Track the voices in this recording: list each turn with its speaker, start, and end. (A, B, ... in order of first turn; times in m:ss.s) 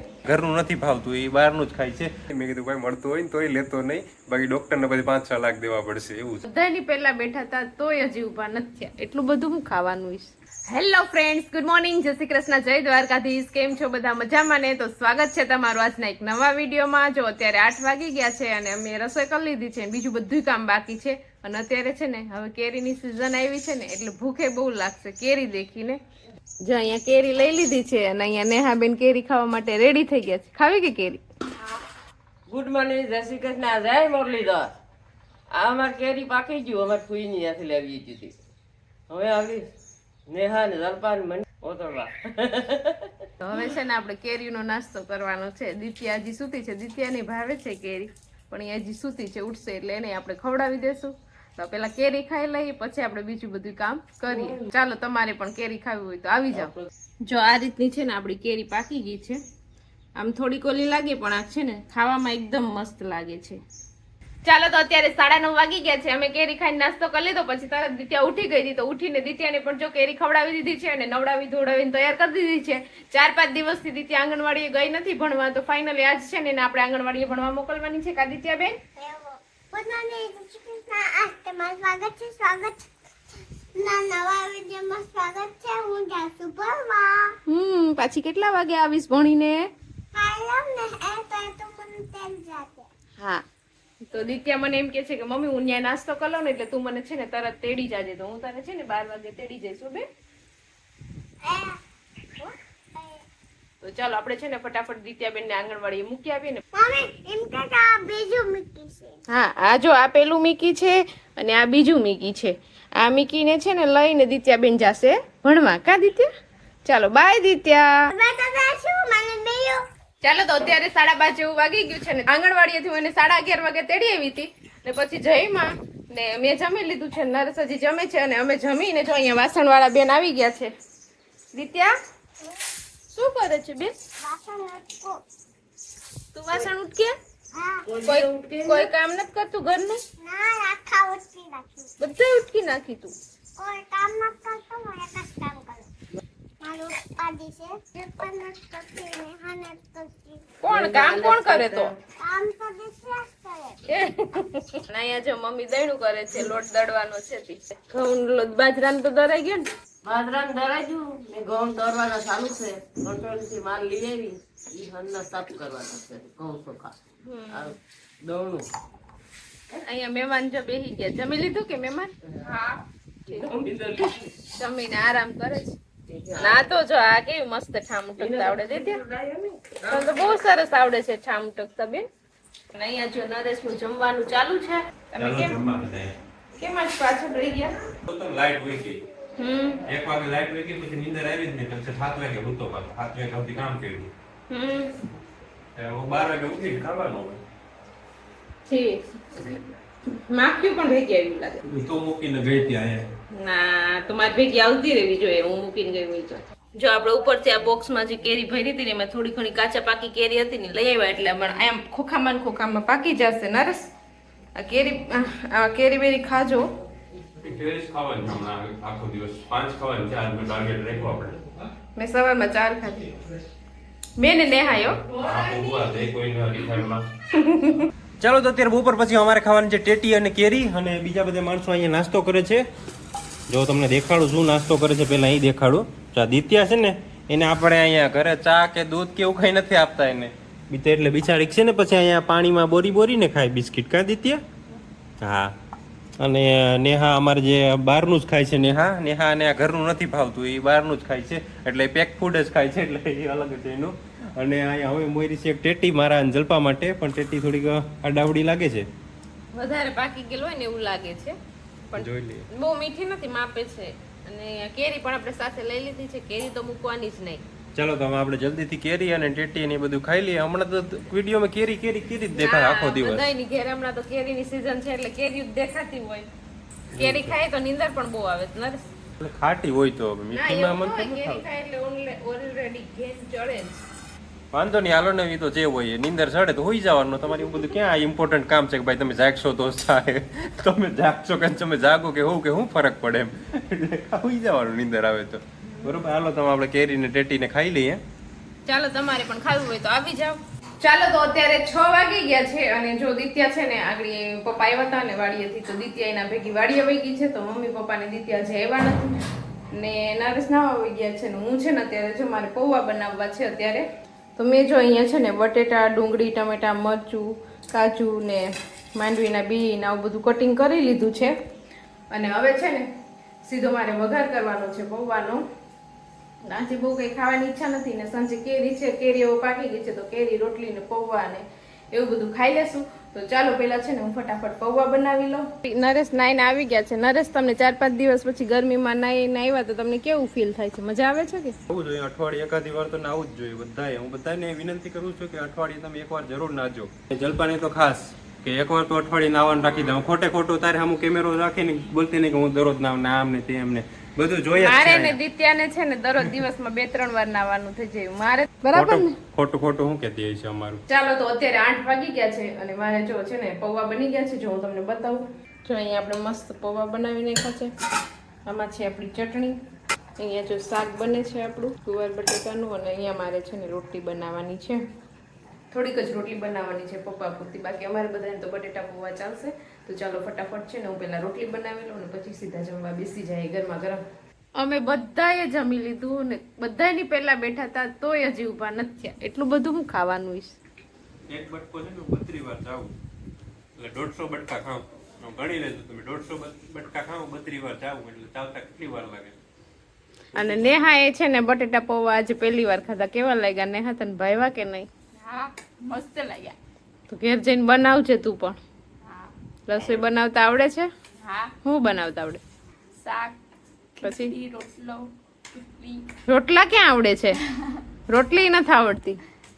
0:00.2-0:06.4 A
0:06.4-0:26.0 B
0:26.6-0:31.2 B
0:32.5-0:34.7 C
0:35.5-0:38.3 C
0:39.1-0:39.7 C
0:40.3-0:43.2 C
0:43.4-0:59.4 B
0:54.4-0:54.6 C
1:00.2-1:03.6 B
1:04.4-1:18.8 B
1:19.0-1:22.9 D
1:23.8-1:27.3 D
1:27.5-1:29.7 B
1:30.1-1:32.9 D
1:34.1-1:40.0 B
1:41.4-1:41.8 D
1:42.4-1:43.2 D
1:43.8-1:46.6 B
1:46.7-1:49.2 D
1:49.3-1:56.3 B
1:56.8-1:58.1 B
1:58.1-1:59.8 D
2:00.2-2:10.7 B
2:11.5-2:11.9 B
2:13.1-2:13.9 B
2:14.2-2:15.2 D
2:16.3-2:17.1 B
2:17.5-2:17.9 D
2:17.8-2:18.9 C
2:18.0-2:20.0 B
2:20.2-2:21.9 D
2:22.0-2:23.1 B
2:23.6-2:25.9 D
2:26.6-2:30.5 D
2:30.6-2:31.9 B
2:30.7-2:31.9 C
2:32.2-2:33.8 D
2:33.9-2:39.6 B
2:40.0-2:46.9 C
2:47.2-2:47.7 B
2:47.5-2:48.7 C
2:49.8-2:52.1 B
2:52.4-2:54.3 C
2:54.5-2:55.8 B
2:56.1-2:56.7 C
2:56.4-2:59.0 B
2:58.2-3:00.2 C
2:59.8-3:02.0 B
3:02.7-3:05.6 B
3:05.2-3:06.2 A
3:06.6-3:07.7 B
3:08.0-3:09.0 A
3:09.4-3:09.8 B
3:09.8-3:14.1 A
3:14.5-3:14.9 B
3:15.8-3:17.4 A
3:18.7-3:19.6 B
3:20.2-3:21.6 B
3:21.6-3:23.0 A
3:23.4-3:33.9 B
3:34.5-3:36.7 B
3:37.4-3:41.4 A
3:42.0-3:43.1 B
3:44.2-3:45.5 B
3:45.0-3:47.0 A
3:47.3-3:47.9 B
3:48.2-3:52.6 A
3:53.5-4:04.4 A
4:05.2-4:05.6 A
4:06.2-4:18.8 A
4:19.5-4:21.4 B
4:21.9-4:27.4 B
4:22.0-4:22.4 A
4:27.7-4:33.3 A
4:32.4-4:36.3 B
4:36.9-4:37.4 A
4:37.0-4:38.8 B
4:39.2-4:41.4 A
4:40.3-4:43.8 B
4:44.5-4:58.0 A
4:55.7-4:56.0 B
4:58.6-5:09.1 B
5:09.7-5:21.3 B
5:22.1-5:22.8 B
5:23.4-5:25.4 B
5:26.4-5:41.5 B
5:41.7-5:55.2 A
5:54.6-5:59.2 B
5:58.7-6:00.8 A
6:00.9-6:07.7 B
6:08.5-6:09.6 B
6:10.2-6:14.8 B
6:15.7-6:24.0 B
6:24.6-6:30.6 B
6:31.3-6:32.9 A
6:33.8-6:39.3 A
6:40.3-6:44.9 B
6:40.4-6:40.7 A
6:45.2-6:46.5 E
6:47.1-6:48.6 B
6:49.1-6:49.3 E
6:49.7-6:50.9 B
6:51.2-6:51.5 E
6:51.6-6:52.4 B
6:53.0-6:53.4 E
6:54.0-6:54.4 B
6:54.0-6:56.0 E
6:56.3-6:57.4 B
6:58.1-6:59.2 B